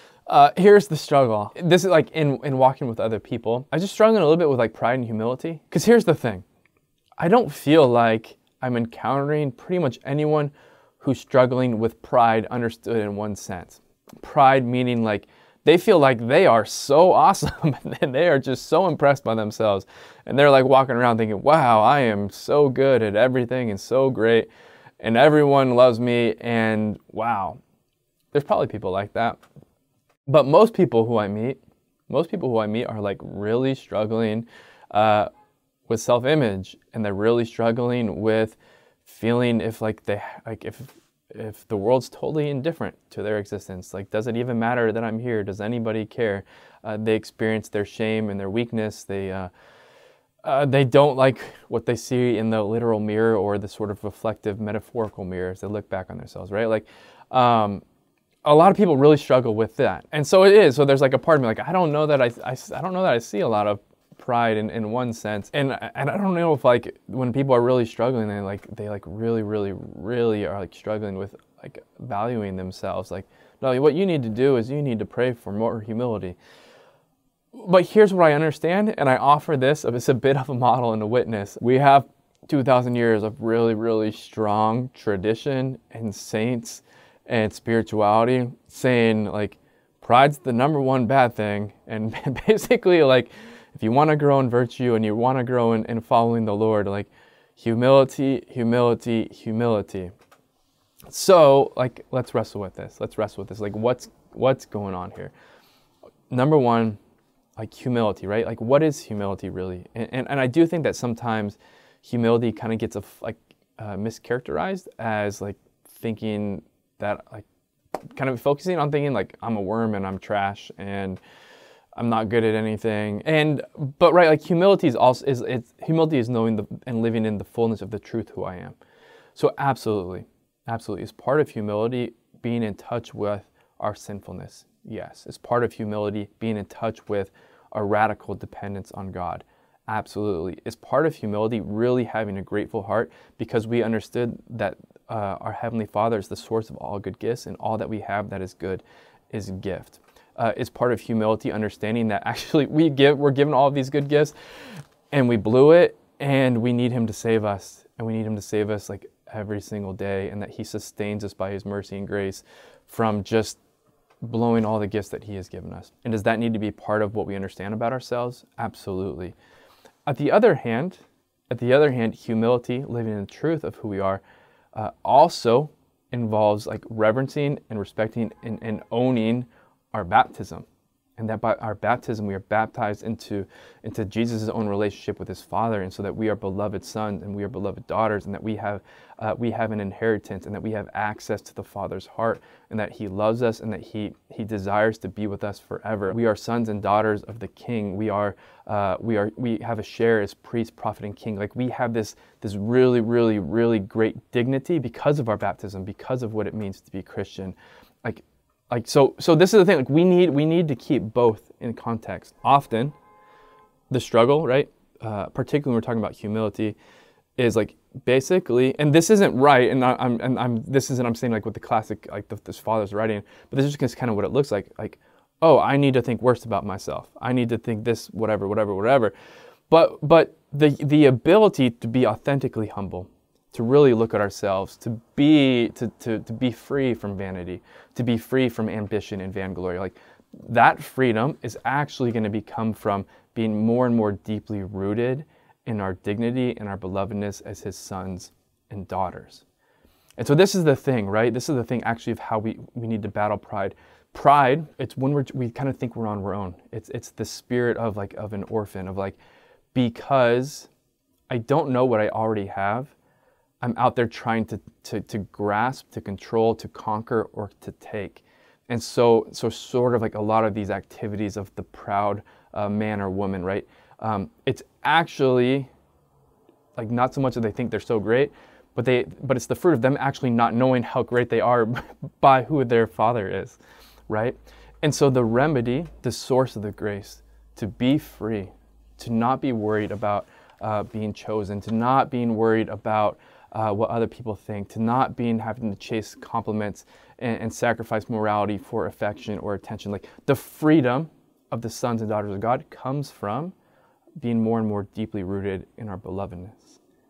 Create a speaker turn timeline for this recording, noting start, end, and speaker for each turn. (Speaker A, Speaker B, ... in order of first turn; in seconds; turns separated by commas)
Speaker A: 0.3-6.4, Speaker A: 7.2-24.5, Speaker A: 25.0-27.6, Speaker A: 28.3-29.4, Speaker A: 30.3-35.3, Speaker A: 35.9-49.5, Speaker A: 50.4-57.8, Speaker A: 58.4-76.4, Speaker A: 77.5-100.1, Speaker A: 101.1-105.3, Speaker A: 106.3-107.0, Speaker A: 107.6-117.5, Speaker A: 118.1-121.2, Speaker A: 122.0-128.8, Speaker A: 129.3-154.3, Speaker A: 155.1-163.6, Speaker A: 164.2-169.3, Speaker A: 170.1-174.2, Speaker A: 174.7-180.6, Speaker A: 181.2-212.9, Speaker A: 213.9-216.8, Speaker A: 217.4-229.1, Speaker A: 229.7-249.4, Speaker A: 250.2-259.2, Speaker A: 259.7-260.7, Speaker A: 261.3-262.9, Speaker A: 263.6-275.7, Speaker A: 276.8-303.5, Speaker A: 304.2-306.8